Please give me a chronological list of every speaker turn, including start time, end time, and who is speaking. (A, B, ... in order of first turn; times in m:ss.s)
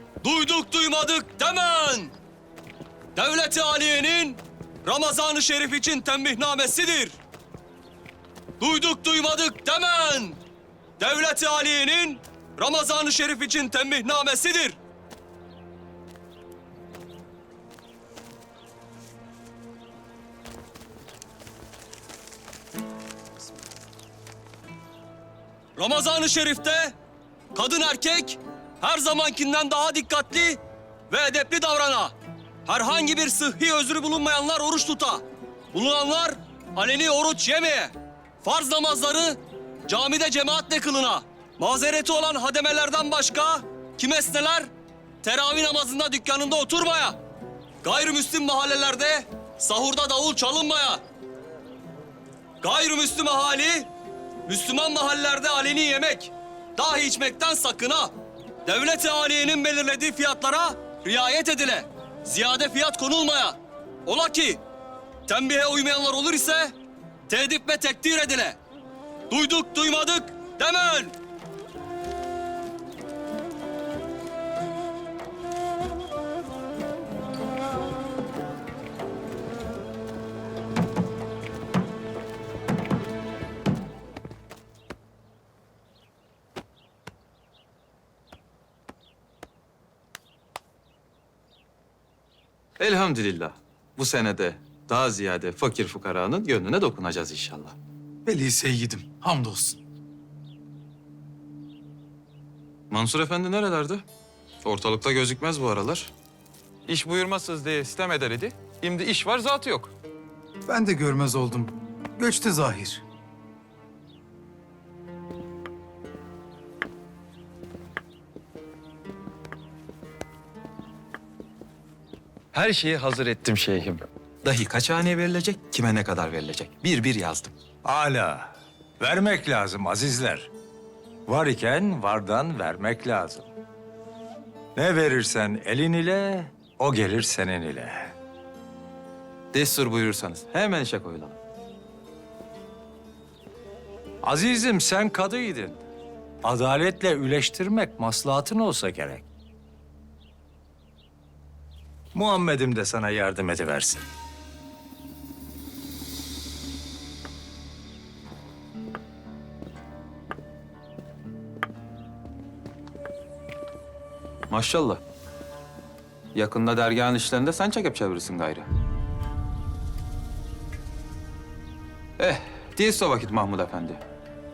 0:00.2-0:02.1 A
0:03.1-0:07.2 A
0:08.6-0:10.4 A
0:11.0-0:14.8 A
0:25.8-0:27.0 A
0:27.5-0:44.7 A
0:45.2-0:47.2 A
0:47.8-0:51.0 A
0:52.6-0:53.9 A
0:54.4-1:04.6 A
1:05.3-1:06.7 A
1:07.3-1:08.6 A
1:09.3-1:11.2 A
1:32.8-1:37.8 B
1:38.3-1:39.8 C
1:42.9-1:44.0 B
1:44.6-1:46.1 B
1:46.9-1:49.9 B
1:50.7-1:53.0 C
2:02.5-2:07.5 B
2:07.8-2:08.5 D
2:09.0-2:10.5 D
2:11.3-2:13.5 D
2:14.8-2:18.1 D
2:19.5-2:21.4 B
2:24.2-2:25.8 D
2:26.4-2:29.3 D
2:32.1-2:34.1 D
2:44.5-2:45.0 B
2:46.3-2:48.7 B
2:52.2-2:54.0 B